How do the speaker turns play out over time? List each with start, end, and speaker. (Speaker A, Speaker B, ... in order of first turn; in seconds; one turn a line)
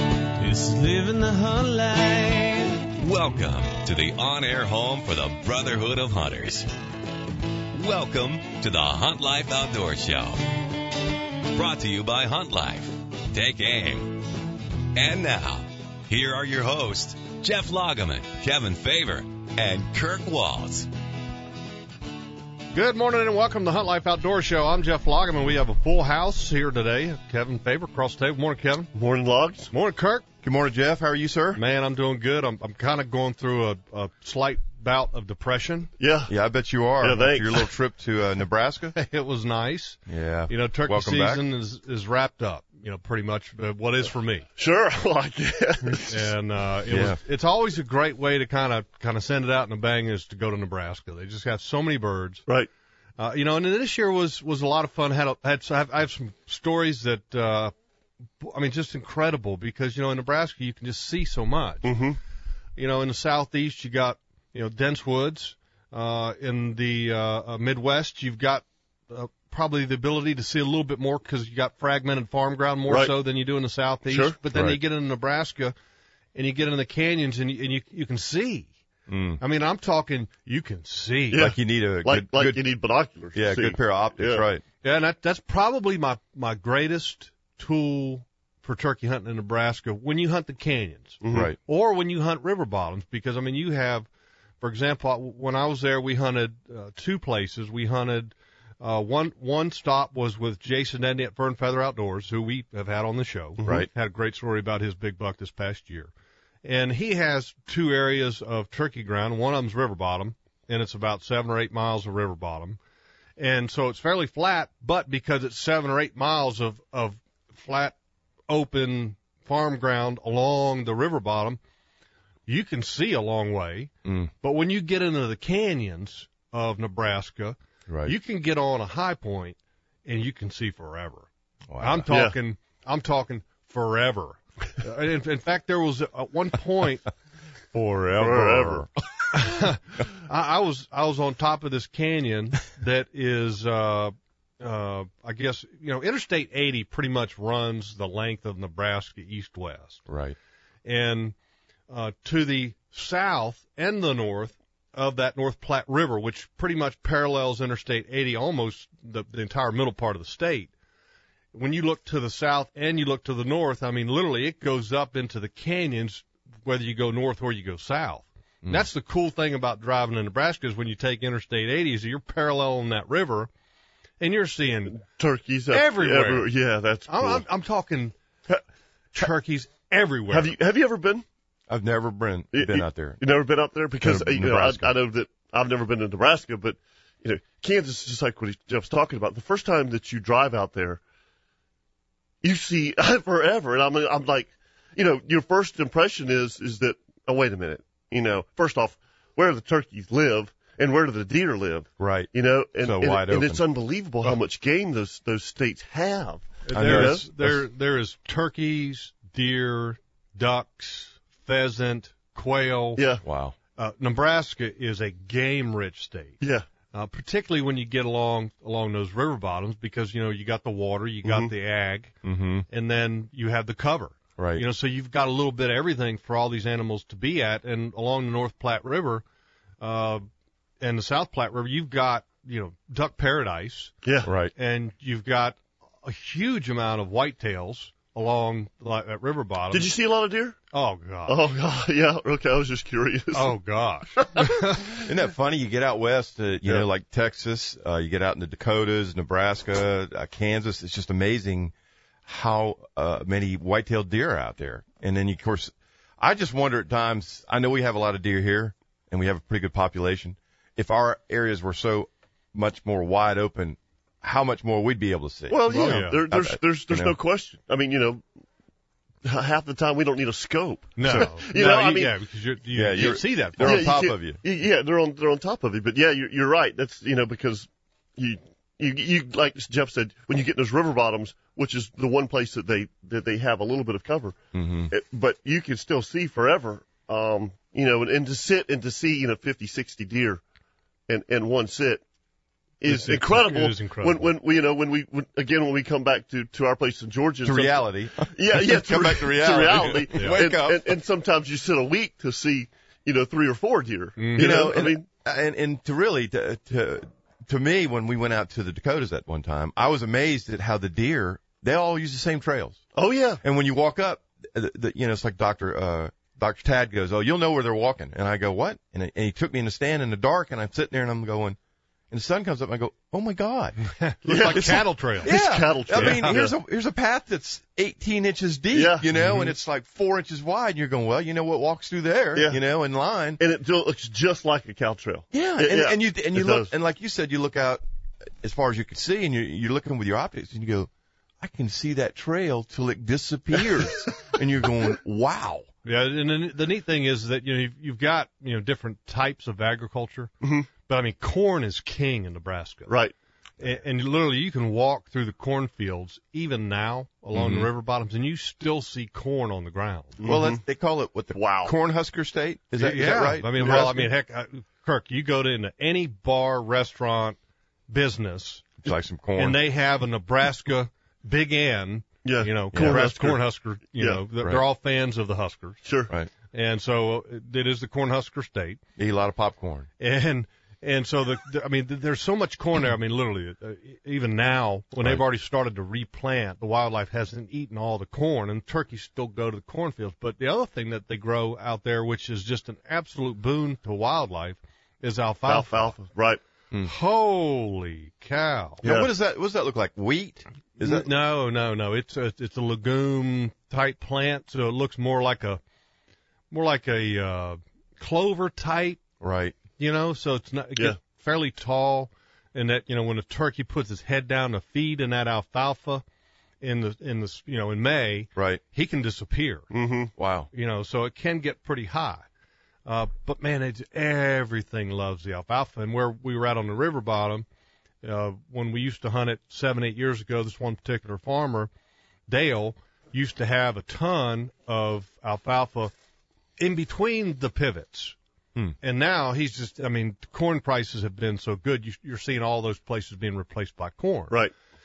Speaker A: 0.4-2.8
Speaker B: 3.0-6.7
Speaker B: 7.7-10.5
Speaker B: 11.5-14.2
Speaker B: 14.9-20.9
Speaker C: 22.7-28.9
Speaker D: 28.9-29.7
Speaker C: 29.7-30.2
Speaker E: 30.4-31.6
Speaker C: 31.6-35.9
Speaker D: 36.0-36.3
Speaker E: 36.3-39.0
Speaker D: 37.0-37.7
Speaker C: 39.0-44.5
Speaker E: 40.1-41.4
Speaker D: 44.6-46.3
Speaker C: 46.1-52.5
Speaker E: 46.9-47.2
Speaker C: 53.2-57.7
Speaker C: 58.4-62.0
Speaker D: 61.8-62.2
Speaker C: 62.8-75.7
Speaker D: 72.9-73.1
Speaker D: 74.1-74.4
Speaker E: 74.5-74.8
Speaker C: 76.3-78.7
Speaker E: 79.1-79.4
Speaker C: 79.4-81.5
Speaker D: 81.3-84.4
Speaker E: 81.4-82.6
Speaker E: 83.3-84.6
Speaker C: 84.8-94.1
Speaker D: 91.2-91.5
Speaker E: 91.3-91.6
Speaker C: 94.6-106.1
Speaker E: 103.6-103.9
Speaker C: 106.6-112.8
Speaker C: 113.4-118.0
Speaker C: 118.5-121.6
Speaker C: 122.5-123.9
Speaker E: 124.0-124.3
Speaker C: 124.4-131.3
Speaker E: 127.9-128.1
Speaker E: 131.7-132.1
Speaker C: 131.8-137.1
Speaker D: 132.1-132.3
Speaker C: 137.7-150.1
Speaker D: 138.2-138.9
Speaker E: 150.1-150.4
Speaker C: 150.8-151.3
Speaker C: 151.9-160.7
Speaker C: 161.5-173.5
Speaker C: 174.2-175.0
Speaker D: 174.9-177.4
Speaker C: 175.7-176.5
Speaker C: 177.1-178.1
Speaker C: 179.1-180.6
Speaker D: 180.3-181.2
Speaker E: 181.7-183.2
Speaker D: 182.5-191.0
Speaker E: 184.0-184.9
Speaker D: 192.4-207.2
Speaker E: 202.0-203.6
Speaker C: 206.7-213.0
Speaker E: 206.7-207.7
Speaker D: 213.0-213.2
Speaker E: 213.2-213.6
Speaker C: 213.8-216.4
Speaker D: 216.4-216.7
Speaker C: 216.9-222.2
Speaker D: 221.2-221.5
Speaker E: 222.2-222.7
Speaker C: 222.7-229.2
Speaker E: 224.4-224.6
Speaker C: 229.8-230.3
Speaker C: 230.8-233.9
Speaker D: 234.0-234.3
Speaker E: 234.2-234.5
Speaker C: 234.6-239.9
Speaker D: 239.7-240.6
Speaker C: 240.7-241.4
Speaker D: 241.3-243.5
Speaker C: 243.3-245.0
Speaker E: 244.9-251.7
Speaker E: 252.3-267.2
Speaker D: 265.5-268.2
Speaker C: 265.7-266.2
Speaker D: 269.2-272.1
Speaker C: 271.0-273.9
Speaker E: 271.0-271.5
Speaker E: 272.7-274.4
Speaker D: 273.6-284.4
Speaker E: 284.5-284.9
Speaker D: 284.9-290.4
Speaker D: 291.1-292.0
Speaker D: 292.8-305.1
Speaker C: 292.9-294.3
Speaker E: 297.4-301.0
Speaker C: 300.2-300.4
Speaker C: 304.2-304.7
Speaker E: 304.4-312.8
Speaker D: 312.9-313.4
Speaker E: 313.4-321.6
Speaker E: 322.1-323.8
Speaker C: 323.9-325.3
Speaker D: 324.3-326.5
Speaker E: 324.4-333.4
Speaker C: 325.9-326.4
Speaker D: 328.7-329.3
Speaker C: 329.2-329.5
Speaker D: 332.4-332.6
Speaker D: 333.4-336.7
Speaker E: 335.3-337.8
Speaker E: 338.4-345.7
Speaker C: 345.9-350.3
Speaker D: 350.4-350.7
Speaker C: 350.9-352.9
Speaker D: 352.9-353.1
Speaker C: 353.6-360.2
Speaker E: 357.3-357.7
Speaker D: 360.2-360.6
Speaker E: 360.2-364.1
Speaker D: 361.3-361.7
Speaker C: 362.8-367.4
Speaker C: 367.9-368.8
Speaker E: 368.8-369.6
Speaker C: 369.4-375.8
Speaker D: 372.2-373.4
Speaker E: 372.7-373.1
Speaker D: 374.0-374.2
Speaker D: 375.8-376.1
Speaker C: 376.5-378.8
Speaker E: 379.0-379.9
Speaker C: 380.0-395.9
Speaker D: 395.5-396.4
Speaker C: 396.8-398.8
Speaker E: 398.8-401.1
Speaker D: 398.8-399.1
Speaker C: 400.8-405.6
Speaker C: 406.5-409.0
Speaker E: 409.2-409.6
Speaker C: 409.8-416.0
Speaker C: 416.6-419.7
Speaker E: 418.4-418.6
Speaker D: 419.7-420.1
Speaker E: 420.2-420.5
Speaker C: 420.5-422.3
Speaker C: 422.9-427.5
Speaker C: 428.0-431.7
Speaker C: 432.3-435.9
Speaker C: 436.6-438.2
Speaker C: 438.8-444.4